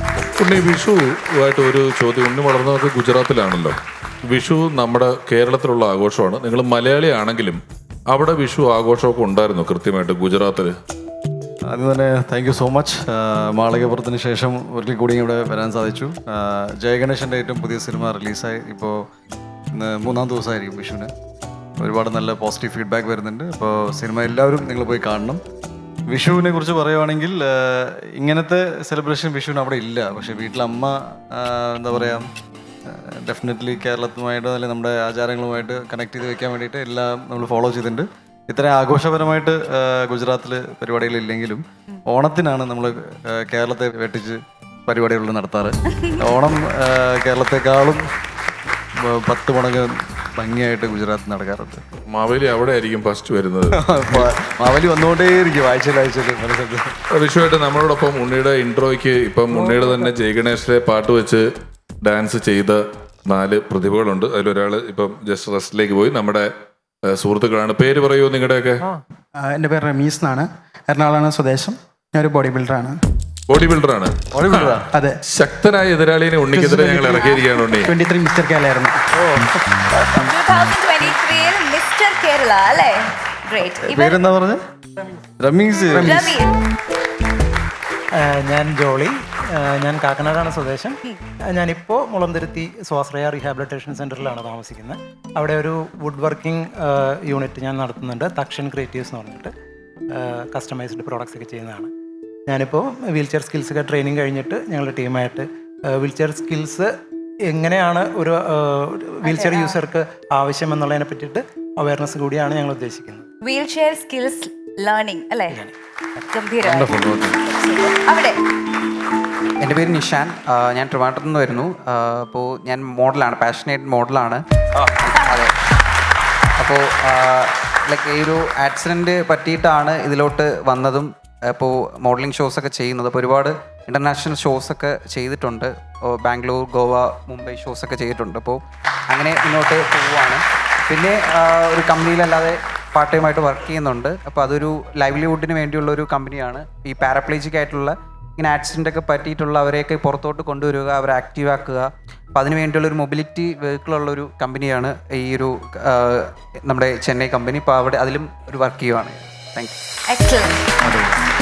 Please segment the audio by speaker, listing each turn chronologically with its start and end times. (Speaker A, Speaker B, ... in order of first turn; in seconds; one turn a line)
Speaker A: 0.4-3.8
Speaker A: 4.3-10.7
Speaker B: 11.7-19.0
Speaker B: 19.7-21.1
Speaker B: 21.8-25.4
Speaker B: 26.1-32.2
Speaker B: 32.9-48.0
Speaker B: 49.0-51.8
Speaker A: 52.1-54.3
Speaker B: 53.7-56.9
Speaker A: 57.1-61.5
Speaker A: 62.0-66.5
Speaker A: 67.1-68.8
Speaker C: 69.4-73.0
Speaker A: 73.5-77.9
Speaker B: 74.3-74.9
Speaker C: 74.9-75.2
Speaker C: 76.5-79.1
Speaker D: 80.2-84.2
Speaker B: 83.8-84.6
Speaker B: 85.4-86.4
Speaker C: 85.9-86.2
Speaker D: 86.0-86.5
Speaker E: 88.2-91.0
Speaker E: 91.5-99.5
Speaker E: 100.1-101.9
Speaker E: 102.5-106.9
Speaker E: 107.5-113.2
Speaker D: 109.2-109.8
Speaker D: 113.4-115.6
Speaker D: 116.3-118.4
Speaker B: 116.7-117.4
Speaker F: 119.6-124.4
Speaker F: 125.0-125.5
Speaker D: 125.1-125.4
Speaker F: 126.6-151.8
Speaker F: 152.3-159.8
Speaker D: 160.1-160.6